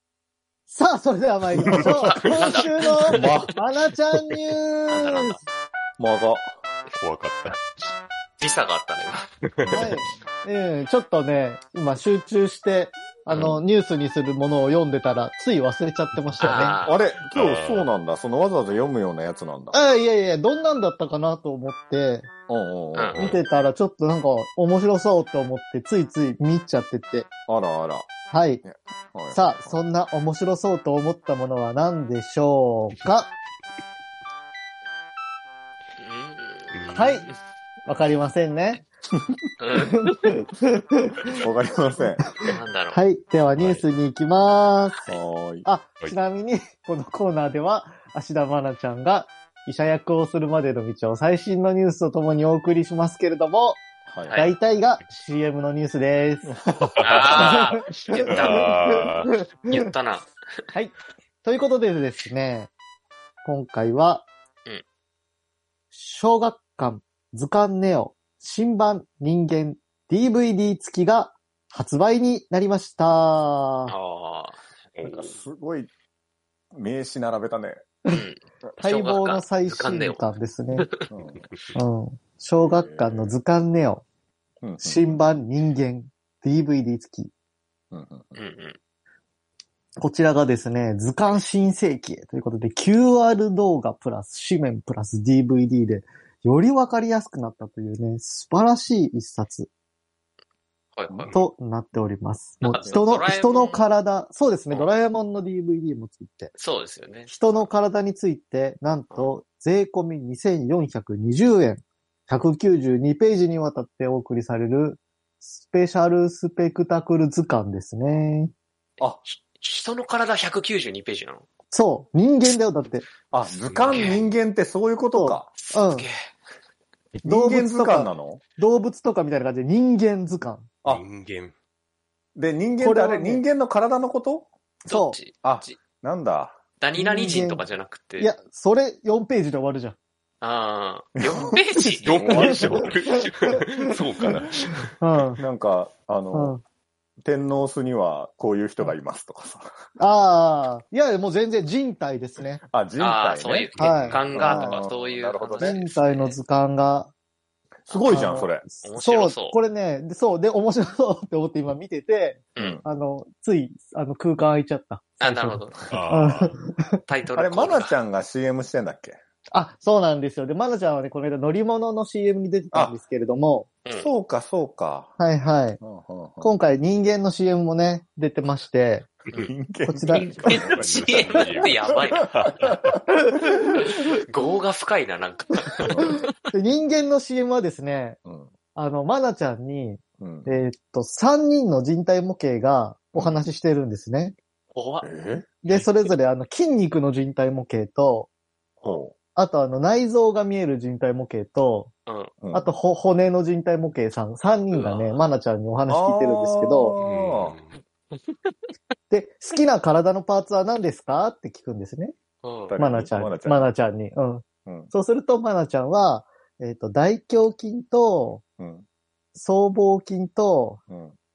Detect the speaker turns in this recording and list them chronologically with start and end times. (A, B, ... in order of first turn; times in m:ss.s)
0:00.7-0:05.4 A
0:01.7-0:03.5 B
0:03.1-0:03.5 C
0:04.9-0:05.4 B
0:06.0-0:06.6 C
0:07.0-0:07.9 D
0:08.4-0:09.2 B
0:09.6-0:10.0 D
0:09.6-0:09.9 C
0:09.7-0:16.8 A
0:16.3-0:16.6 D
0:16.4-0:17.0 B
0:16.8-0:19.8 C
0:17.3-0:17.9 D
0:19.7-0:22.3 A
0:22.5-0:23.4 C
0:22.9-0:23.5 B
0:23.1-0:23.4 D
0:23.2-0:27.3 A
0:27.5-0:28.1 C
0:28.3-0:28.6 A
0:28.6-0:29.8 C
0:29.3-0:33.3 A
0:36.0-0:36.8 B
0:36.7-0:37.3 D
0:36.9-0:37.3 A
0:37.9-0:38.8 A
0:39.6-0:40.2 B
0:39.8-0:41.4 A
0:41.3-0:42.3 C
0:42.3-0:45.1 A
0:42.4-0:43.0 B
0:45.1-0:45.7 C
0:45.6-0:53.8 A
0:54.1-0:54.4 C
0:54.3-0:54.5 B
0:54.4-0:56.6 A
0:56.8-0:59.3 D
0:57.0-0:59.1 B
0:57.3-0:59.9 A
0:59.7-1:00.3 B
1:00.7-1:02.7 A
1:03.4-1:04.3 A
1:05.9-1:13.9 A
1:13.9-1:15.3 B
1:15.0-1:15.9 C
1:16.7-1:17.8 C
1:18.1-1:21.1 B
1:18.8-1:20.9 A
1:21.1-1:21.5 C
1:21.8-1:24.0 A
1:22.6-1:23.4 C
1:24.6-1:25.2 C
1:24.8-1:27.3 A
1:27.9-1:28.4 C
1:28.4-1:28.8 B
1:30.0-1:39.7 A
1:41.0-1:41.4 B
1:41.1-1:41.4 C
1:41.3-1:46.5 A
1:42.6-1:43.9 B
1:42.8-1:43.3 C
1:46.6-1:47.7 B
1:47.3-1:58.5 A
1:59.3-2:01.5 B
2:01.7-2:03.1 A
2:03.3-2:05.5 C
2:03.7-2:04.2 D
2:03.9-2:04.3 B
2:05.2-2:06.1 A
2:05.6-2:06.3 B
2:07.2-2:08.4 C
2:07.2-2:10.7 A
2:10.9-2:11.5 D
2:12.4-2:14.5 C
2:12.8-2:13.4 A
2:14.9-2:15.8 B
2:14.9-2:15.2 A
2:15.4-2:16.6 C
2:16.8-2:18.3 B
2:17.0-2:17.6 A
2:18.2-2:20.0 A
2:20.4-2:22.7 B
2:21.2-2:21.6 C
2:21.5-2:23.6 A
2:22.0-2:24.9 D
2:22.2-2:22.9 C
2:25.0-2:25.4 A
2:25.4-2:26.5 C
2:26.3-2:26.6 A
2:27.2-2:29.7 C
2:30.0-2:32.6 A
2:32.7-2:33.7 C
2:33.0-2:36.4 B
2:33.8-2:34.2 D
2:33.8-2:34.8 A
2:34.2-2:35.8 C
2:35.6-2:37.1 A
2:37.9-2:38.6 C
2:37.9-2:39.6 B
2:38.0-2:47.0 A
2:42.6-2:42.8 B
2:42.6-2:42.8 C
2:45.2-2:45.8 B
2:45.9-2:46.6 D
2:47.1-2:47.9 B
2:47.4-2:49.2 C
2:49.5-2:53.7 A
2:53.8-2:54.1 B
2:54.0-2:55.2 C
2:55.2-2:55.8 A
2:55.8-2:56.5 C
2:56.4-2:59.1 A
2:59.4-3:03.8 C
2:59.9-3:00.3 A
3:00.1-3:02.4 B
3:00.4-3:02.8 D
3:03.2-3:03.7 A
3:03.8-3:06.4 B
3:05.9-3:06.2 C
3:06.0-3:08.2 A
3:08.3-3:08.5 C
3:08.8-3:14.4 A
3:10.2-3:10.6 C
3:14.7-3:15.1 B
3:15.0-3:15.5 C
3:15.6-3:18.3 A
3:15.7-3:16.1 B
3:18.8-3:19.2 C
3:19.4-3:21.9 A
3:22.1-3:22.4 B
3:22.4-3:22.7 C
3:22.5-3:27.0 A
3:24.7-3:25.2 B
3:25.9-3:27.6 C
3:27.0-3:27.8 D
3:28.1-3:28.6 B
3:29.1-3:32.1 A
3:32.4-3:32.8 B
3:32.7-3:33.7 C
3:32.8-3:38.4 A
3:34.7-3:34.9 C
3:38.6-3:38.8 C
3:39.4-3:40.8 A
3:40.9-3:41.2 C